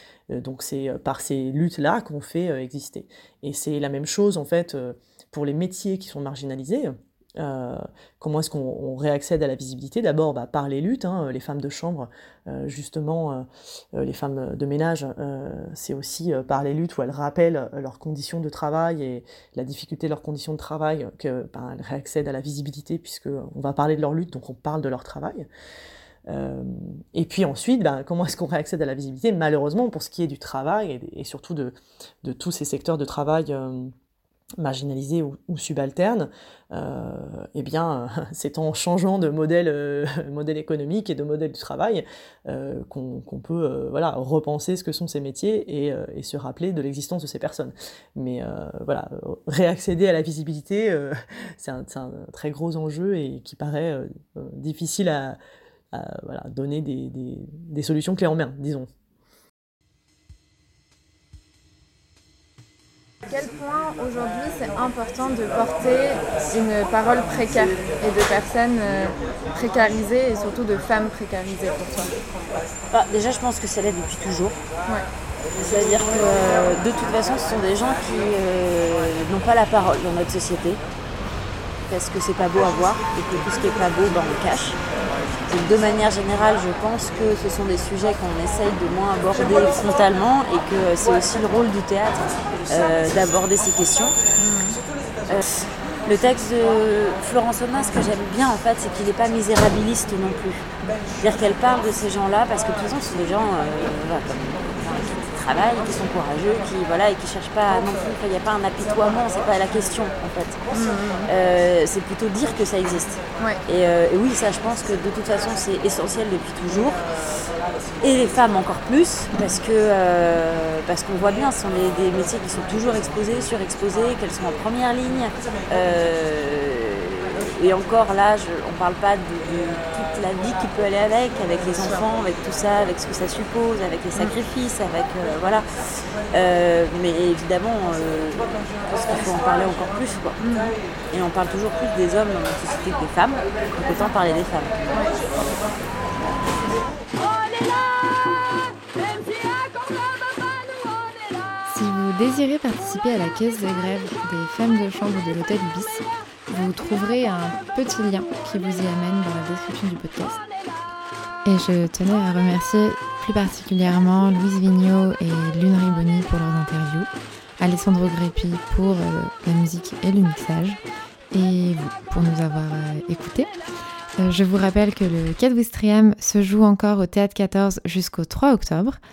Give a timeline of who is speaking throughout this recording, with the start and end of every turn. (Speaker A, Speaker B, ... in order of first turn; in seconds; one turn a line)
Speaker A: 0.3-25.5
Speaker A: 26.3-33.9
Speaker A: 34.6-55.4
Speaker A: 55.9-58.9
Speaker B: 63.3-72.1
Speaker C: 72.9-74.6
Speaker C: 75.6-80.8
Speaker C: 81.9-84.8
Speaker C: 85.5-94.1
Speaker B: 94.4-94.8
Speaker C: 96.0-100.7
Speaker C: 101.2-110.6
Speaker B: 110.7-111.3
Speaker C: 111.2-117.0
Speaker C: 118.0-135.6
Speaker C: 136.3-140.4
Speaker B: 140.4-140.8
Speaker C: 141.1-144.9
Speaker D: 151.7-160.4
Speaker D: 161.4-173.5
Speaker D: 174.2-179.0